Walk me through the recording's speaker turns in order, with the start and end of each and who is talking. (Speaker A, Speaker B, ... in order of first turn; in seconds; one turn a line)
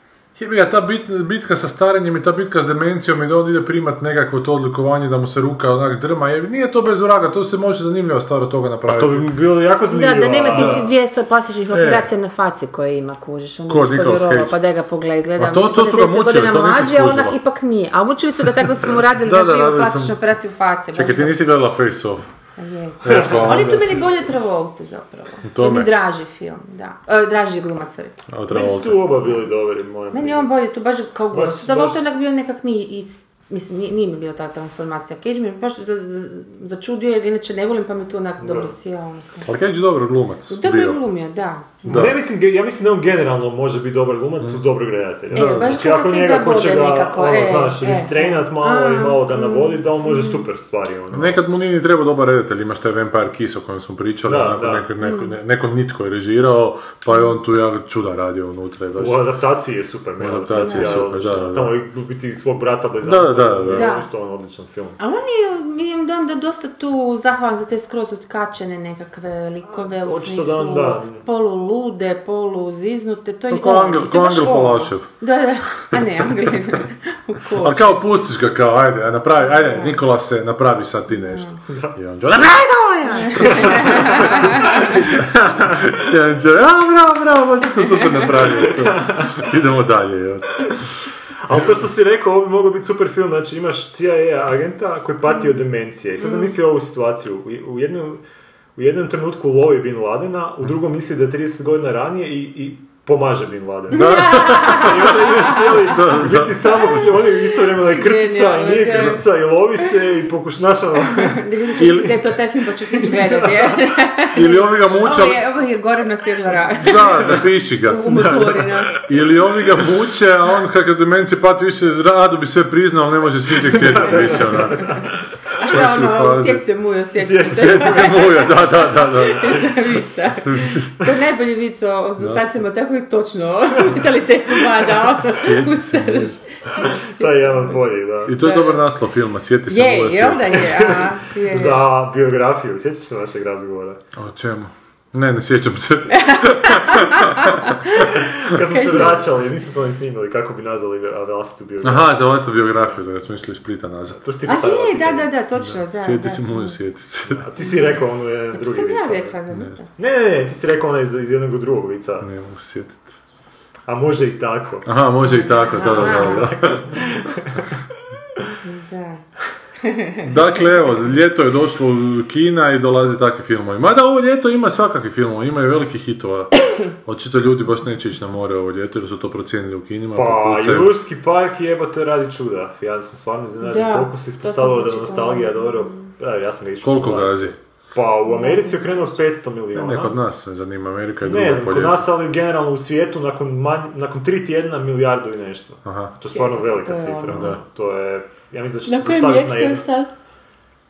Speaker A: 0.4-9.3
Speaker B: 8.9-10.9
Speaker C: 9.9-21.4
Speaker A: 11.7-12.1
Speaker A: 13.7-14.6
Speaker A: 15.4-17.4
Speaker A: 19.1-20.2
Speaker A: 20.9-22.3
Speaker C: 22.6-28.2
Speaker A: 23.0-24.1
Speaker B: 23.1-23.9
Speaker A: 25.4-25.9
Speaker A: 28.3-29.0
Speaker B: 28.5-30.6
Speaker C: 30.1-39.5
Speaker B: 31.3-32.0
Speaker B: 38.4-38.7
Speaker A: 39.5-41.0
Speaker C: 40.5-42.1
Speaker A: 41.9-42.2
Speaker B: 41.9-51.4
Speaker A: 45.3-45.8
Speaker C: 45.3-50.4
Speaker A: 51.1-59.3
Speaker B: 54.3-54.9
Speaker C: 55.0-55.4
Speaker B: 59.0-65.0
Speaker A: 60.2-61.8
Speaker C: 60.6-61.0
Speaker A: 63.0-63.9
Speaker C: 63.7-64.1
Speaker C: 65.0-78.0
Speaker B: 69.7-71.2
Speaker A: 73.5-75.1
Speaker A: 77.5-90.8
Speaker C: 79.5-80.0
Speaker C: 81.2-81.6
Speaker C: 83.0-85.0
Speaker B: 83.5-84.1
Speaker B: 85.1-85.8
Speaker B: 88.7-89.5
Speaker B: 91.4-98.2
Speaker B: 98.8-112.1
Speaker A: 103.9-106.9
Speaker C: 103.9-105.6
Speaker C: 107.0-109.2
Speaker C: 111.1-119.0
Speaker A: 111.8-112.2
Speaker B: 112.9-113.7
Speaker A: 114.3-115.4
Speaker A: 116.8-118.3
Speaker B: 118.2-119.1
Speaker A: 119.0-125.0
Speaker B: 123.7-125.2
Speaker C: 125.6-138.9
Speaker A: 125.6-126.7
Speaker B: 127.2-128.5
Speaker A: 127.5-129.7
Speaker A: 130.5-130.9
Speaker A: 132.2-132.6
Speaker A: 135.1-136.4
Speaker B: 136.8-138.4
Speaker A: 138.3-141.0
Speaker C: 139.7-141.8
Speaker B: 140.7-144.0
Speaker A: 144.2-147.7
Speaker C: 146.1-149.2
Speaker B: 148.0-152.2
Speaker A: 151.8-154.3
Speaker B: 154.2-155.3
Speaker C: 154.4-156.8
Speaker A: 155.6-157.5
Speaker B: 157.3-159.4
Speaker C: 158.5-159.9
Speaker A: 159.5-159.8
Speaker B: 160.0-162.3
Speaker A: 162.2-163.2
Speaker B: 163.9-164.9
Speaker A: 164.8-166.9
Speaker C: 165.2-166.5
Speaker B: 165.8-167.6
Speaker C: 168.6-169.2
Speaker C: 169.9-170.2
Speaker A: 170.2-181.0
Speaker B: 180.2-190.2
Speaker C: 183.6-186.0
Speaker A: 186.8-187.6
Speaker C: 188.3-189.1
Speaker A: 189.7-192.1
Speaker B: 191.2-199.9
Speaker A: 195.8-196.1
Speaker C: 196.3-197.6
Speaker C: 198.9-200.1